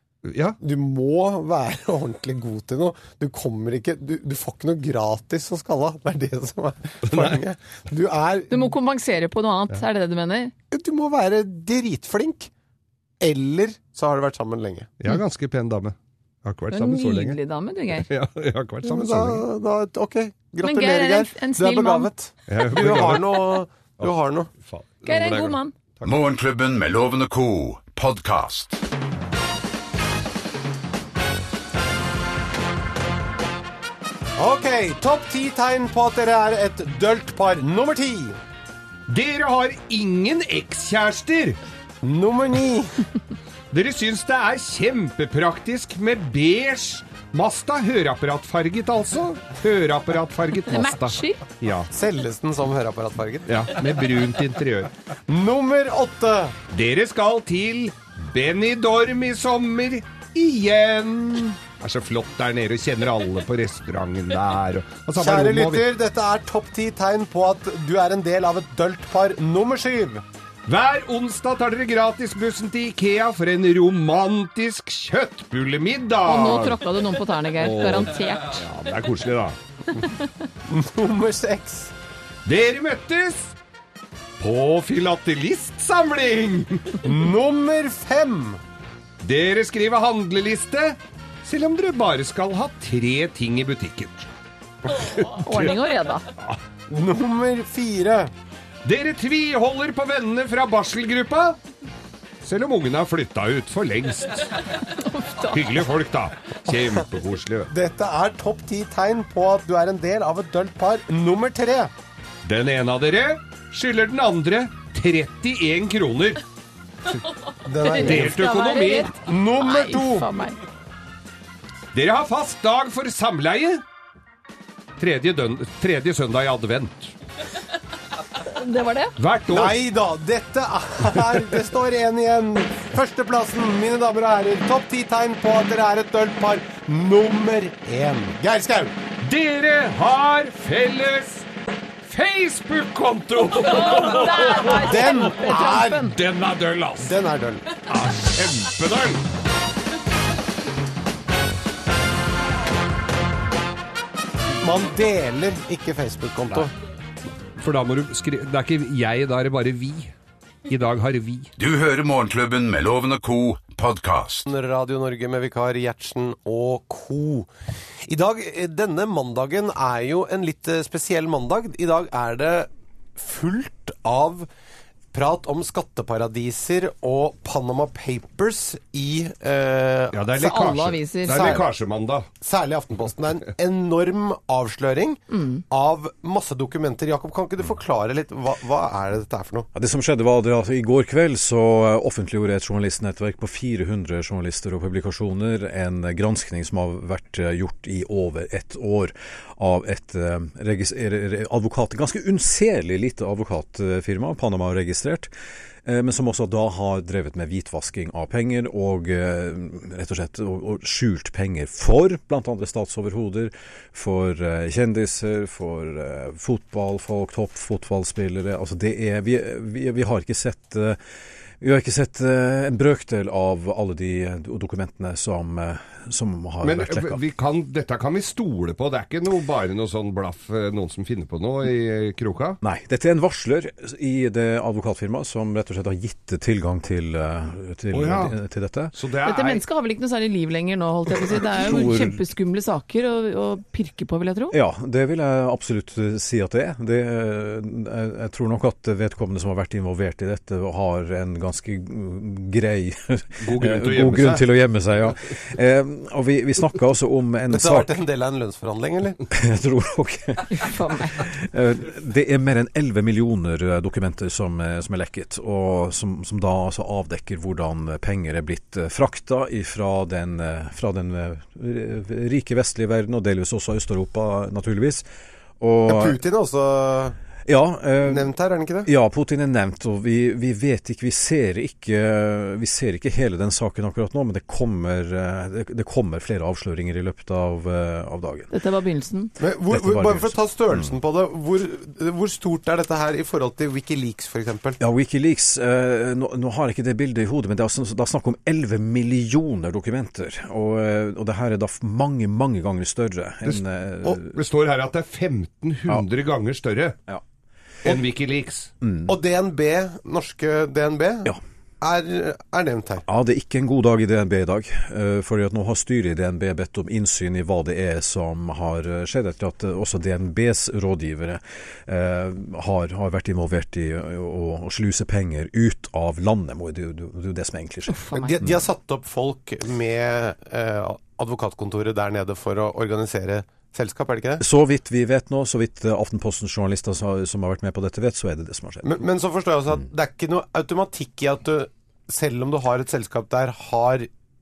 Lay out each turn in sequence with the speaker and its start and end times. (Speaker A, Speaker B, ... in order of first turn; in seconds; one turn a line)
Speaker A: 0.2-0.6
Speaker B: 0.6-8.7
Speaker A: 7.0-7.4
Speaker C: 8.5-10.5
Speaker B: 10.7-12.5
Speaker B: 13.2-14.9
Speaker A: 15.0-17.4
Speaker C: 16.7-18.1
Speaker A: 17.9-19.4
Speaker B: 18.8-24.5
Speaker C: 20.6-22.1
Speaker A: 22.5-24.1
Speaker A: 24.6-26.1
Speaker C: 25.0-25.7
Speaker D: 26.0-28.8
Speaker B: 34.4-38.4
Speaker A: 39.1-41.6
Speaker B: 42.0-43.0
Speaker A: 43.7-51.9
Speaker C: 50.7-51.4
Speaker B: 51.9-53.5
Speaker A: 53.5-54.9
Speaker B: 55.3-56.5
Speaker A: 56.7-65.9
Speaker B: 65.2-70.2
Speaker A: 70.7-76.8
Speaker C: 76.2-78.6
Speaker A: 77.6-79.6
Speaker C: 80.0-80.3
Speaker B: 80.7-81.9
Speaker A: 82.5-83.5
Speaker A: 84.4-87.1
Speaker B: 87.0-88.6
Speaker A: 89.2-94.2
Speaker A: 94.9-95.8
Speaker C: 95.4-96.3
Speaker B: 96.9-98.3
Speaker A: 98.8-101.6
Speaker A: 102.4-104.6
Speaker C: 104.9-105.7
Speaker A: 105.4-107.7
Speaker B: 107.7-111.9
Speaker A: 112.4-116.4
Speaker B: 117.6-118.4
Speaker C: 117.8-120.6
Speaker A: 118.0-119.2
Speaker B: 119.2-120.3
Speaker A: 121.9-123.8
Speaker A: 125.0-127.1
Speaker C: 128.4-129.1
Speaker A: 129.2-129.8
Speaker B: 129.5-138.9
Speaker A: 139.2-141.5
Speaker A: 142.0-147.1
Speaker C: 143.5-146.1
Speaker B: 144.8-146.1
Speaker B: 147.0-147.8
Speaker A: 147.9-149.2
Speaker B: 154.6-156.7
Speaker A: 157.6-160.1
Speaker A: 160.7-161.5
Speaker D: 161.6-164.5
Speaker B: 164.4-167.5
Speaker B: 168.1-174.5
Speaker B: 175.1-180.6
Speaker A: 180.1-182.3
Speaker C: 180.4-181.6
Speaker B: 182.4-189.7
Speaker C: 185.3-185.6
Speaker E: 189.7-205.3
Speaker E: 205.8-221.0
Speaker E: 221.6-227.2
Speaker A: 226.6-232.6
Speaker E: 232.6-238.9
Speaker A: 237.9-238.3
Speaker A: 238.9-239.6
Speaker C: 239.2-244.5
Speaker E: 241.6-242.2
Speaker E: 244.5-258.0
Speaker A: 253.4-254.5
Speaker B: 257.5-259.2
Speaker E: 259.3-275.1
Speaker C: 260.5-261.2
Speaker E: 275.6-276.2
Speaker B: 275.9-277.1
Speaker E: 277.4-278.3
Speaker B: 278.0-278.9
Speaker E: 278.8-288.5
Speaker C: 288.5-289.3
Speaker B: 289.4-294.8
Speaker E: 289.7-290.9
Speaker E: 294.8-304.4
Speaker A: 304.2-307.0
Speaker A: 307.8-308.7
Speaker E: 308.8-309.1
Speaker B: 309.1-313.0
Speaker E: 313.1-328.6
Speaker C: 327.9-328.4
Speaker B: 328.1-334.4
Speaker E: 334.4-339.0
Speaker B: 338.8-344.1